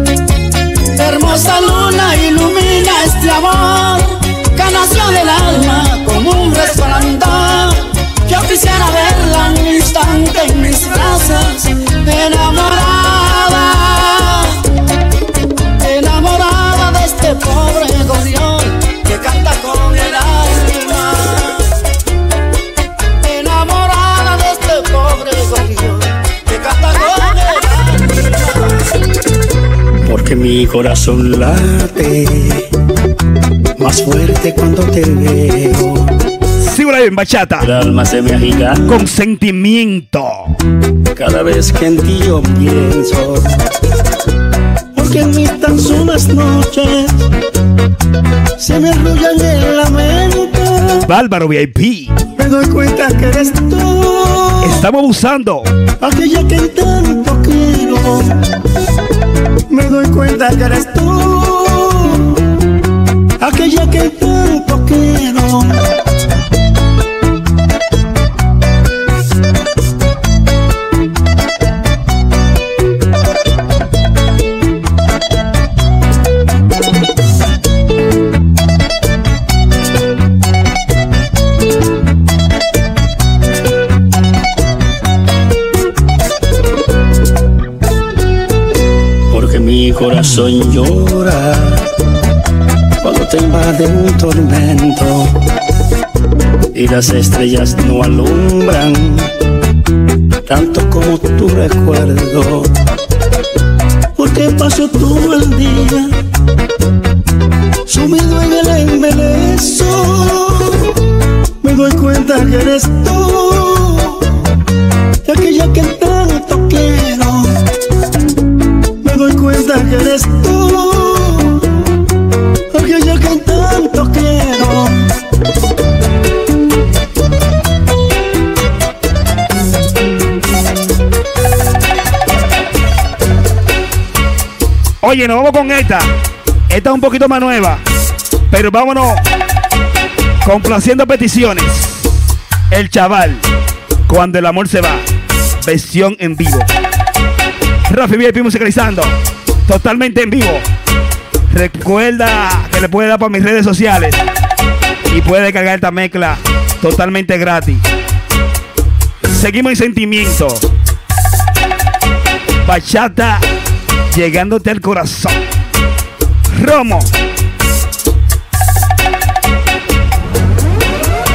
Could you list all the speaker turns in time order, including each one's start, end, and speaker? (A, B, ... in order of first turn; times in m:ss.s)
0:01.0-0:14.6 A
0:15.8-0:21.7 A
0:23.2-0:29.0 A
0:30.0-0:32.7 B
0:33.8-0:36.1 B
0:36.6-0:37.7 C
0:37.6-0:39.1 B
0:38.9-0:40.5 C
0:41.1-0:43.6 B
0:44.9-0:47.3 B
0:48.6-0:51.1 B
0:51.1-0:52.2 C
0:52.4-0:54.8 B
0:54.6-0:55.7 C
0:56.0-0:58.4 B
0:59.7-1:02.4 B
1:03.4-1:05.8 B
1:29.3-1:31.9 B
1:33.0-1:35.3 B
1:36.7-1:39.3 B
1:40.5-1:42.7 B
1:44.2-1:46.1 B
1:47.9-1:51.0 B
1:51.6-1:54.3 B
1:55.2-1:57.6 B
1:59.0-2:01.7 B
2:02.7-2:05.1 B
2:15.0-2:16.1 C
2:16.7-2:17.8 C
2:18.5-2:19.2 C
2:20.4-2:22.1 C
2:22.7-2:23.4 C
2:24.1-2:25.0 C
2:25.6-2:26.7 C
2:27.9-2:29.1 C
2:29.7-2:30.6 C
2:31.5-2:34.2 C
2:35.1-2:37.8 C
2:39.3-2:40.7 C
2:42.7-2:43.4 C
2:44.1-2:45.4 C
2:46.5-2:47.1 C